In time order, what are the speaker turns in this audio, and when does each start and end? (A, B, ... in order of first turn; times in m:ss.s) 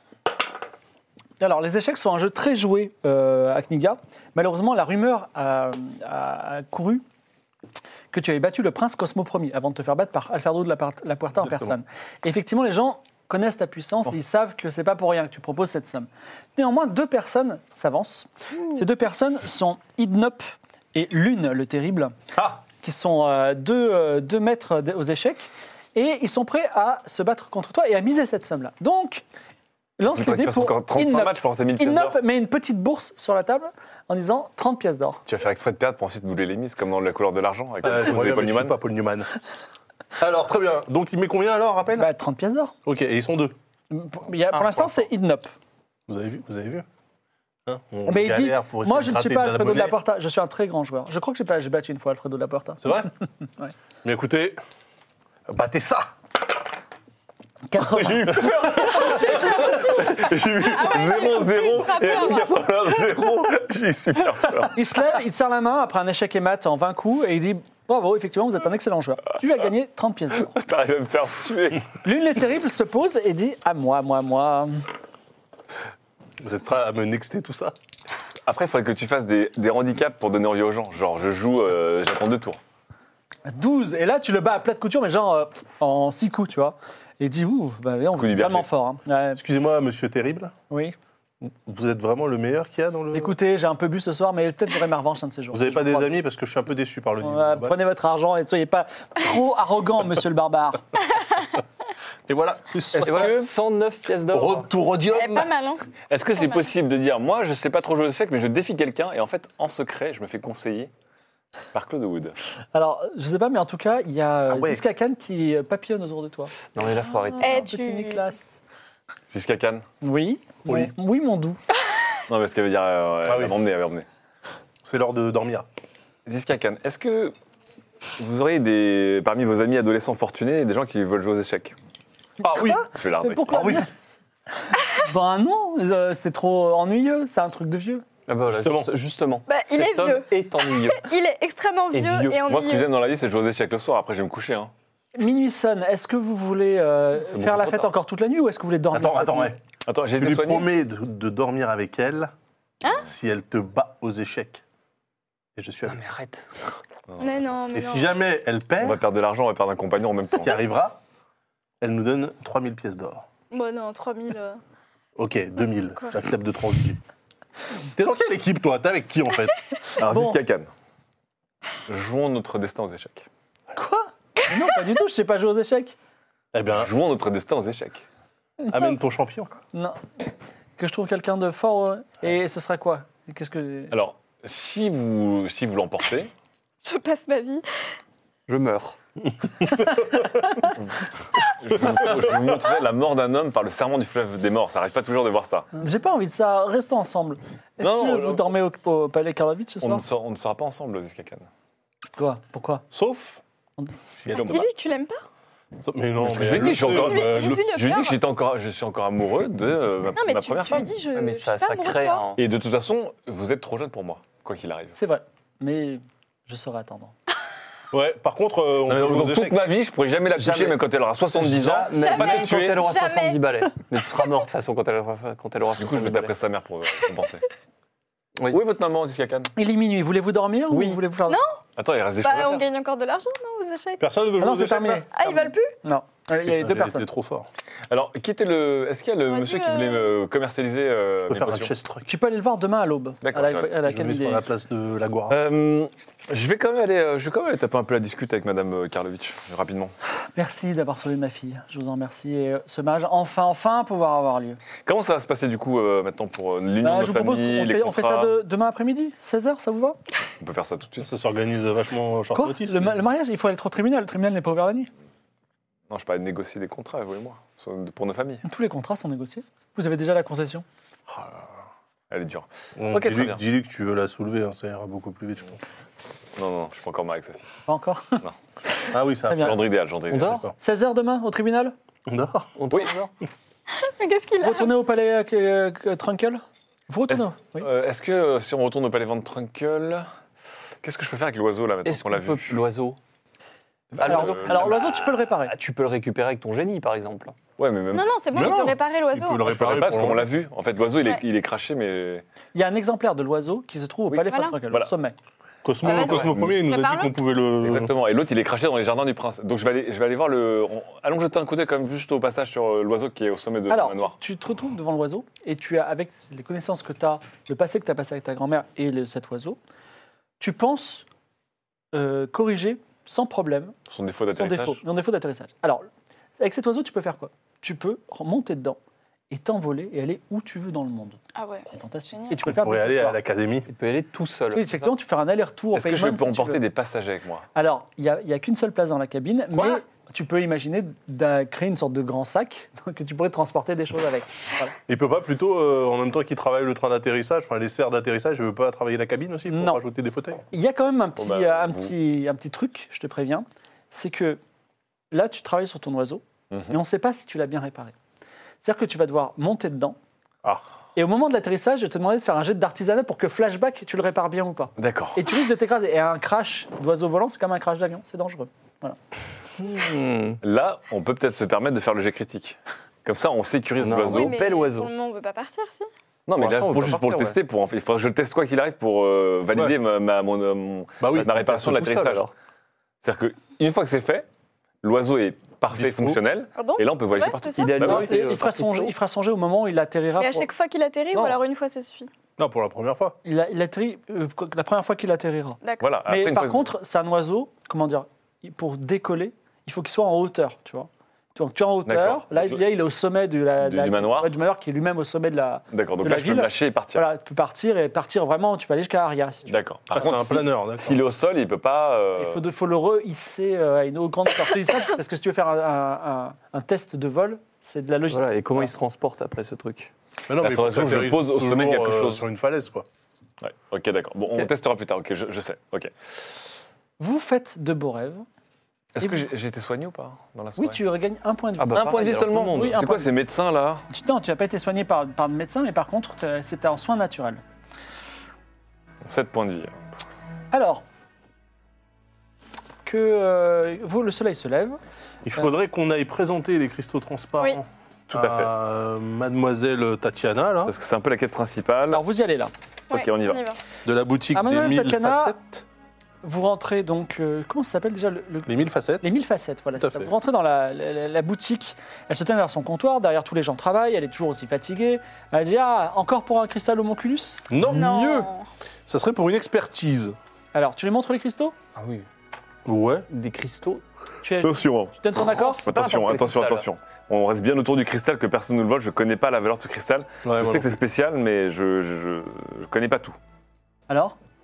0:01.4-0:07.0 A
0:08.1-0:29.2 A
0:11.4-0:11.7 B
0:30.0-0:35.2 A
0:30.1-0:32.2 C
0:35.2-0:38.8 C
0:37.8-0:39.3 B
0:40.2-0:42.1 B
0:42.0-0:42.7 A
0:42.8-0:43.5 B
0:43.9-0:45.5 A
0:46.1-0:46.8 B
0:47.6-0:50.0 B
0:48.0-0:53.1 A
0:52.8-0:53.1 B
0:54.0-0:54.6 B
0:55.5-0:56.1 B
0:57.7-0:59.1 A
0:57.9-1:04.8 C
0:58.7-1:02.6 D
1:04.7-1:10.6 A
1:10.4-1:11.9 C
1:12.0-1:14.8 A
1:16.4-1:17.7 B
1:18.4-1:22.6 C
1:23.5-1:29.4 A
1:28.2-1:28.7 C
1:29.4-1:30.5 B
1:30.7-1:30.9 A
1:31.4-1:33.3 B
1:33.1-1:36.1 A
1:35.5-1:37.8 B
1:37.2-1:40.8 A
1:42.3-1:43.4 B
1:42.9-1:43.5 C
1:43.0-1:44.7 E
1:44.3-1:45.5 B
1:45.1-1:46.7 D
1:46.1-1:50.9 C
1:51.7-1:52.3 C
1:52.7-1:56.6 A
1:54.5-1:54.8 B
1:56.7-1:57.6 E
1:57.4-1:58.2 D
1:57.4-1:58.6 A
1:59.3-1:59.8 C
2:00.0-2:01.6 A
2:00.6-2:00.9 B
2:02.3-2:04.0 C
2:03.2-2:03.6 B
2:04.8-2:05.6 B
2:06.2-2:07.3 C
2:08.2-2:11.7 C
2:12.4-2:12.9 B
2:12.4-2:13.9 A
2:12.9-2:13.7 C
2:13.5-2:13.9 B
2:14.9-2:18.0 A
2:18.3-2:21.1 E
2:18.5-2:18.9 B
2:19.5-2:22.9 D
2:21.9-2:22.4 E
2:22.3-2:24.7 C
2:25.2-2:29.5 A
2:27.4-2:27.9 E
2:28.9-2:29.6 B
2:29.8-2:30.7 C
2:30.2-2:32.3 B
2:32.8-2:33.1 D
2:32.9-2:34.6 B
2:35.6-2:36.0 B
2:35.8-2:36.5 E
2:37.1-2:37.6 C
2:37.2-2:38.2 D
2:37.7-2:39.0 B
2:38.8-2:40.6 C
2:40.3-2:41.0 B
2:41.8-2:43.2 B
2:43.5-2:44.6 D
2:45.2-2:47.0 B
2:48.0-2:49.5 B
2:50.0-2:50.7 C
2:50.0-2:50.4 A
2:51.9-2:53.3 C
2:53.8-2:56.0 A
2:56.5-2:56.9 B
2:56.7-2:58.0 C
2:58.6-2:59.0 A
2:58.7-2:59.5 B
2:59.7-3:00.0 A
3:00.8-3:03.9 A
3:03.9-3:06.3 C
3:06.8-3:07.6 D
3:08.5-3:09.0 E
3:11.4-3:15.7 C
3:15.8-3:20.0 A
3:17.8-3:18.5 C
3:19.8-3:21.5 C
3:22.2-3:22.8 A
3:22.9-3:23.4 B
3:24.1-3:24.7 B
3:24.3-3:25.2 D
3:25.8-3:27.7 B
3:26.2-3:30.9 C
3:26.6-3:28.2 D
3:30.1-3:32.3 D
3:31.1-3:32.4 E
3:32.4-3:35.0 C
3:34.9-3:37.1 A
3:37.9-3:39.6 B
3:38.9-3:42.9 C
3:40.3-3:46.3 E
3:41.9-3:43.4 D
3:45.8-3:47.4 C
3:48.5-3:49.5 C
3:49.6-3:51.4 A
3:50.7-3:51.0 E
3:51.2-3:51.6 D
3:51.8-3:52.6 C
3:52.2-3:54.0 D
3:54.0-3:55.1 B
3:54.4-3:57.1 A
3:55.1-3:55.7 D
3:56.4-3:57.5 B
3:57.9-4:01.7 C
3:59.2-4:00.2 D
4:01.3-4:02.1 B
4:02.0-4:04.5 A
4:03.2-4:03.7 C
4:03.8-4:05.4 B
4:05.3-4:09.9 C
4:10.4-4:14.6 A
4:14.8-4:18.4 C
4:16.8-4:20.0 A
4:20.4-4:21.1 C
4:21.0-4:22.9 B
4:22.3-4:24.9 A
4:25.9-4:28.4 C
4:28.4-4:30.6 A
4:32.1-4:33.4 C
4:32.8-4:35.6 B
4:36.4-4:37.5 C
4:37.7-4:38.2 A
4:38.9-4:39.5 B
4:39.3-4:39.6 A
4:39.4-4:40.4 C
4:40.1-4:40.5 E
4:40.6-4:41.7 A
4:42.1-4:42.5 B
4:42.5-4:43.1 E
4:43.7-4:44.7 D
4:44.4-4:47.7 A
4:47.1-4:50.1 C
4:50.8-4:52.6 C
4:51.8-4:53.0 E
4:53.9-4:57.4 E
4:53.9-4:55.0 C
4:54.0-4:55.5 A
4:57.6-4:58.6 C
4:57.9-4:59.5 D
4:58.3-5:00.3 B
4:59.4-5:02.2 C
5:02.5-5:05.2 A
5:04.1-5:04.5 D
5:05.6-5:07.9 B
5:05.8-5:07.2 D
5:05.9-5:06.5 C
5:07.6-5:14.1 C
5:13.7-5:19.6 A
5:20.4-5:21.0 A
5:21.9-5:23.7 A
5:23.9-5:24.8 C
5:24.4-5:25.9 A
5:26.4-5:28.8 A
5:29.3-5:33.2 A
5:31.3-5:32.4 D
5:32.4-5:33.7 B
5:33.7-5:34.9 E
5:34.5-5:36.6 A
5:35.7-5:37.5 C
5:37.5-5:44.7 A
5:39.6-5:39.8 B
5:44.9-5:50.4 B
5:49.5-5:49.8 A
5:50.5-5:54.4 A
5:51.2-5:51.9 C
5:55.1-5:57.9 A
5:58.6-6:00.0 A
6:01.0-6:09.0 A
6:04.8-6:05.2 C
6:09.6-6:10.4 E
6:10.4-6:14.3 C
6:13.8-6:14.9 E
6:14.1-6:15.9 D
6:16.3-6:22.3 C
6:16.3-6:17.4 E
6:21.0-6:21.4 B
6:21.1-6:22.3 E
6:23.0-6:24.2 C
6:24.8-6:28.1 C
6:25.7-6:26.2 B
6:26.6-6:27.8 D
6:27.5-6:28.9 E
6:27.9-6:30.5 A
6:30.2-6:32.1 D
6:32.4-6:33.2 B
6:33.2-6:49.6 A
6:35.8-6:36.7 C
6:41.8-6:42.6 C
6:43.6-6:44.4 C
6:45.7-6:47.0 C
6:49.5-6:52.4 C
6:49.9-6:51.0 B
6:52.2-6:58.7 A
6:58.1-6:59.9 E
7:00.3-7:02.8 B
7:00.4-7:02.2 C
7:03.4-7:05.9 C
7:07.0-7:08.2 A
7:08.9-7:10.8 C
7:09.0-7:09.3 A
7:10.6-7:13.0 A
7:11.6-7:12.9 E
7:11.7-7:13.8 C
7:13.9-7:17.4 A
7:19.0-7:19.7 C
7:20.5-7:20.8 A
7:22.8-7:24.8 A
7:25.2-7:30.7 B
7:28.1-7:28.5 C
7:30.7-7:32.0 C
7:31.9-7:32.5 A
7:32.9-7:33.4 C
7:32.9-7:33.6 D
7:33.8-7:35.6 B
7:34.3-7:35.4 A
7:36.2-7:47.5 A
7:38.4-7:39.1 B
7:39.8-7:40.1 B
7:47.5-7:48.0 B
7:47.7-7:48.4 D
7:47.7-7:48.3 E
7:48.9-7:50.2 B
7:50.5-7:51.5 A
7:51.7-7:52.0 E
7:52.6-7:53.0 B
7:53.1-7:53.8 E
7:54.2-7:55.6 A
7:54.4-7:55.1 C
7:55.2-7:56.6 E
7:55.6-8:03.2 C
8:00.2-8:00.8 B
8:03.9-8:04.2 A